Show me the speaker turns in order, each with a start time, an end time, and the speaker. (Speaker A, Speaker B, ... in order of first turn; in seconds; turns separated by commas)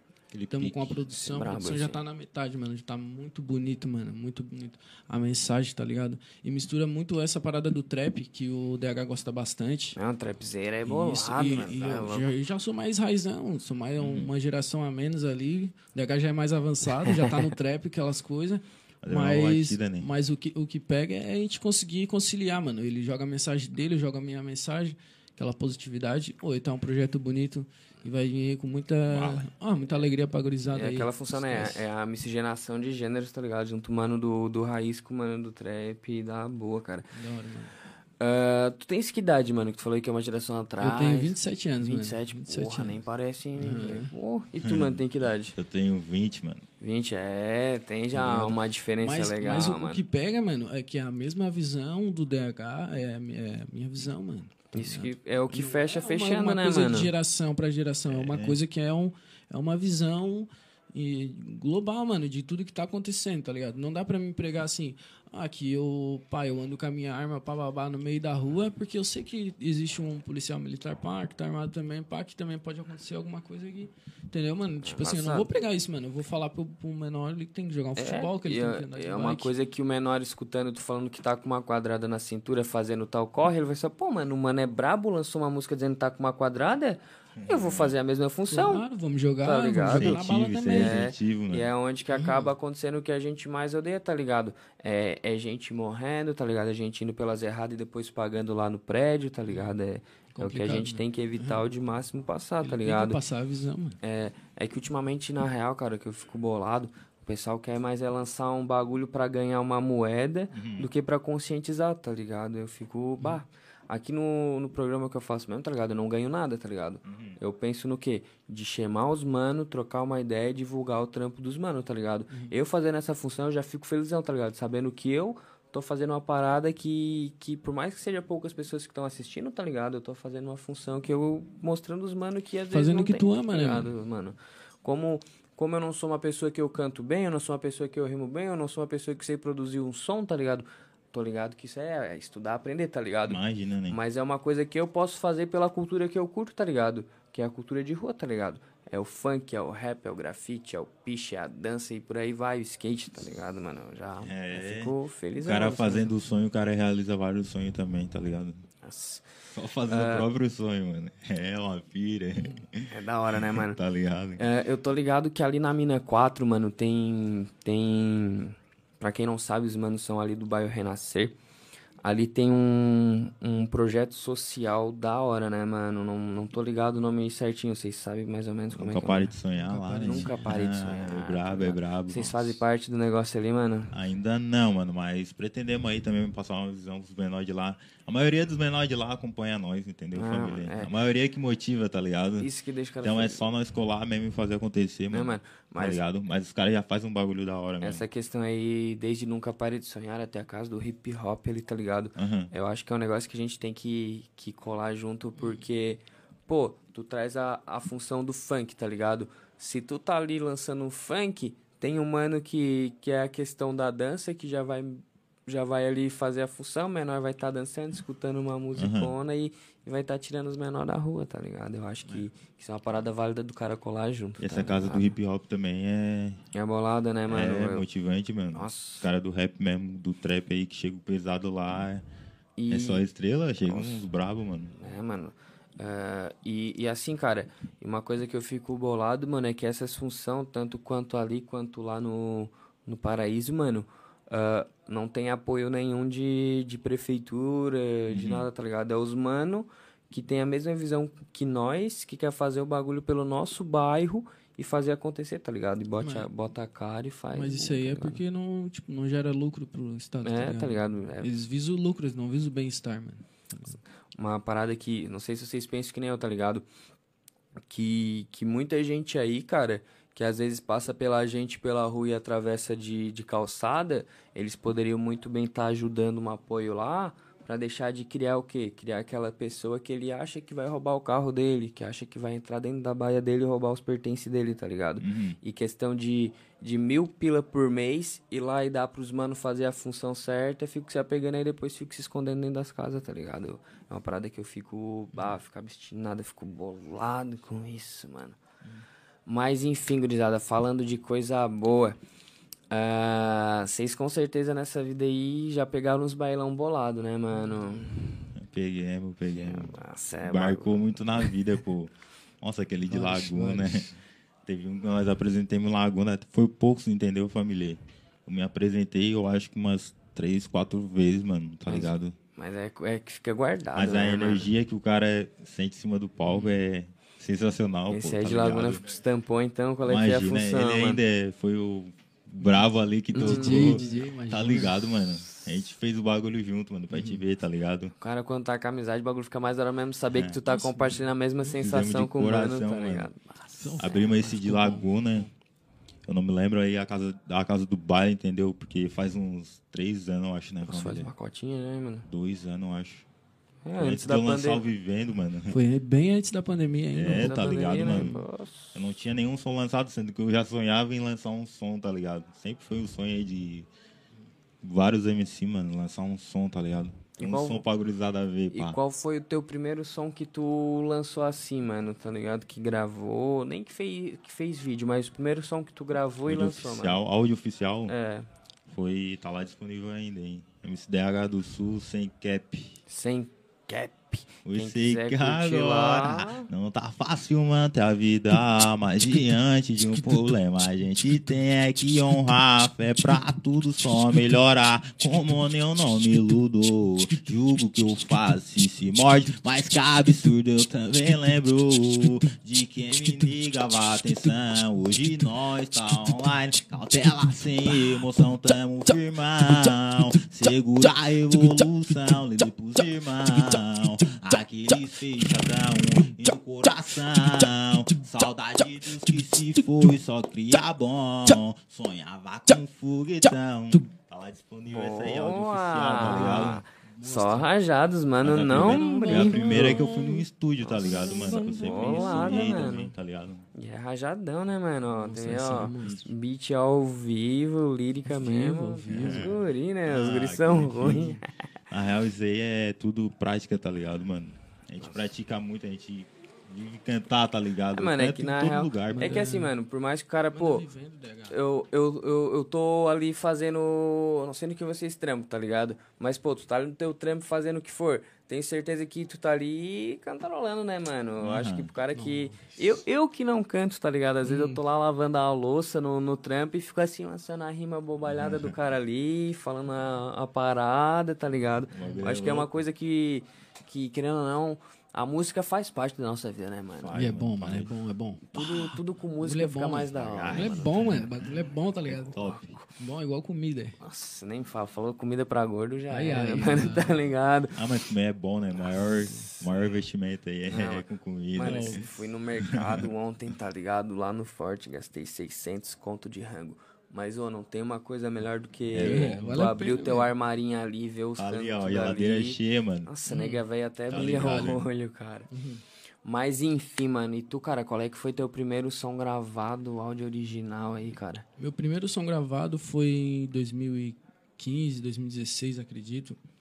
Speaker A: 0.3-1.0, Speaker B: 0.5-10.0, Speaker C: 1.1-2.0, Speaker C: 10.0-12.3, Speaker B: 10.8-31.8, Speaker A: 14.0-14.3, Speaker C: 17.1-17.3, Speaker A: 19.0-20.1, Speaker A: 29.1-29.5, Speaker C: 30.7-37.1, Speaker B: 37.1-37.7, Speaker C: 38.2-45.5, Speaker B: 40.8-43.0, Speaker B: 43.6-44.1, Speaker A: 44.6-46.7, Speaker C: 46.8-50.0, Speaker A: 48.1-48.6, Speaker B: 49.0-79.5, Speaker C: 54.7-57.1, Speaker A: 58.1-58.6, Speaker C: 74.8-75.5, Speaker C: 78.0-88.9, Speaker A: 87.4-88.0, Speaker B: 88.5-91.1, Speaker C: 89.4-103.2, Speaker A: 89.8-91.7, Speaker B: 92.1-92.5, Speaker B: 100.3-101.6, Speaker B: 102.6-104.0, Speaker C: 104.0-156.1, Speaker A: 110.5-110.9, Speaker A: 117.1-117.4, Speaker B: 132.7-133.9, Speaker A: 143.3-144.0, Speaker A: 154.2-158.6, Speaker C: 158.8-159.3, Speaker A: 159.5-164.4, Speaker C: 159.9-160.3, Speaker C: 162.9-163.8, Speaker C: 164.4-171.4, Speaker C: 172.0-179.3, Speaker A: 178.7-182.6, Speaker B: 179.6-180.6, Speaker C: 180.0-183.9, Speaker A: 183.9-192.5, Speaker C: 190.2-190.9, Speaker C: 192.4-193.4, Speaker A: 193.0-198.1, Speaker C: 195.1-196.0, Speaker C: 197.8-225.2, Speaker A: 202.2-202.5, Speaker B: 205.4-205.6, Speaker A: 218.8-219.1, Speaker A: 224.4-226.4, Speaker C: 226.5-227.9, Speaker A: 227.3-232.0, Speaker C: 228.6-229.1, Speaker C: 232.6-233.1, Speaker A: 232.7-234.7, Speaker C: 233.7-234.0, Speaker C: 234.8-258.2, Speaker A: 248.1-248.5, Speaker B: 256.0-256.3, Speaker B: 257.3-263.8, Speaker C: 260.2-261.3, Speaker C: 264.1-266.7, Speaker C: 267.7-298.4, Speaker A: 285.0-285.4, Speaker C: 299.3-302.0, Speaker C: 302.7-308.3, Speaker A: 308.4-313.9, Speaker C: 309.3-311.3, Speaker B: 312.9-314.0, Speaker A: 314.5-322.2, Speaker C: 321.7-324.5, Speaker A: 323.8-328.8, Speaker C: 327.9-331.0, Speaker A: 329.9-337.9, Speaker C: 333.1-334.0, Speaker B: 333.2-334.7, Speaker B: 336.9-337.2, Speaker C: 338.0-343.9, Speaker A: 340.1-340.4, Speaker B: 340.5-341.6, Speaker A: 341.6-343.1, Speaker B: 343.6-345.3, Speaker A: 343.8-345.3, Speaker A: 346.1-351.1, Speaker C: 350.7-352.1, Speaker A: 352.1-353.1, Speaker C: 353.6-354.6, Speaker A: 353.8-355.6, Speaker B: 355.5-358.2, Speaker A: 356.9-358.2, Speaker C: 357.1-358.8, Speaker A: 358.7-363.7, Speaker A: 364.6-368.8, Speaker C: 367.2-367.6, Speaker C: 368.5-377.0, Speaker A: 376.2-377.9, Speaker C: 377.9-378.3, Speaker A: 378.7-382.8, Speaker C: 382.9-386.5, Speaker A: 384.5-426.6, Speaker C: 424.7-432.9, Speaker B: 426.0-427.5, Speaker A: 428.2-433.5, Speaker B: 428.5-430.0, Speaker B: 430.8-432.8, Speaker C: 433.6-441.3, Speaker B: 435.0-436.0, Speaker B: 438.1-439.4, Speaker A: 438.9-449.3, Speaker C: 447.7-450.7, Speaker B: 448.9-449.5, Speaker B: 450.3-451.4, Speaker C: 451.3-476.9, Speaker A: 461.2-461.7, Speaker B: 461.9-462.4, Speaker B: 464.3-464.6, Speaker A: 468.1-468.5, Speaker A: 471.7-472.5, Speaker B: 471.8-472.1, Speaker A: 476.7-477.8, Speaker B: 476.9-478.7, Speaker A: 478.3-478.7, Speaker C: 478.4-481.1, Speaker B: 479.2-482.1, Speaker A: 479.7-481.2, Speaker A: 481.9-482.6, Speaker C: 482.2-482.6, Speaker B: 482.8-483.8, Speaker C: 483.8-487.6, Speaker B: 485.9-487.0, Speaker A: 487.6-491.8, Speaker C: 490.5-505.3, Speaker B: 491.4-491.9, Speaker A: 492.5-492.9, Speaker A: 498.7-499.4, Speaker B: 498.7-500.1, Speaker A: 501.2-502.9, Speaker B: 503.1-504.6, Speaker A: 503.9-504.6, Speaker B: 505.3-505.6, Speaker C: 506.0-511.2, Speaker B: 511.4-516.2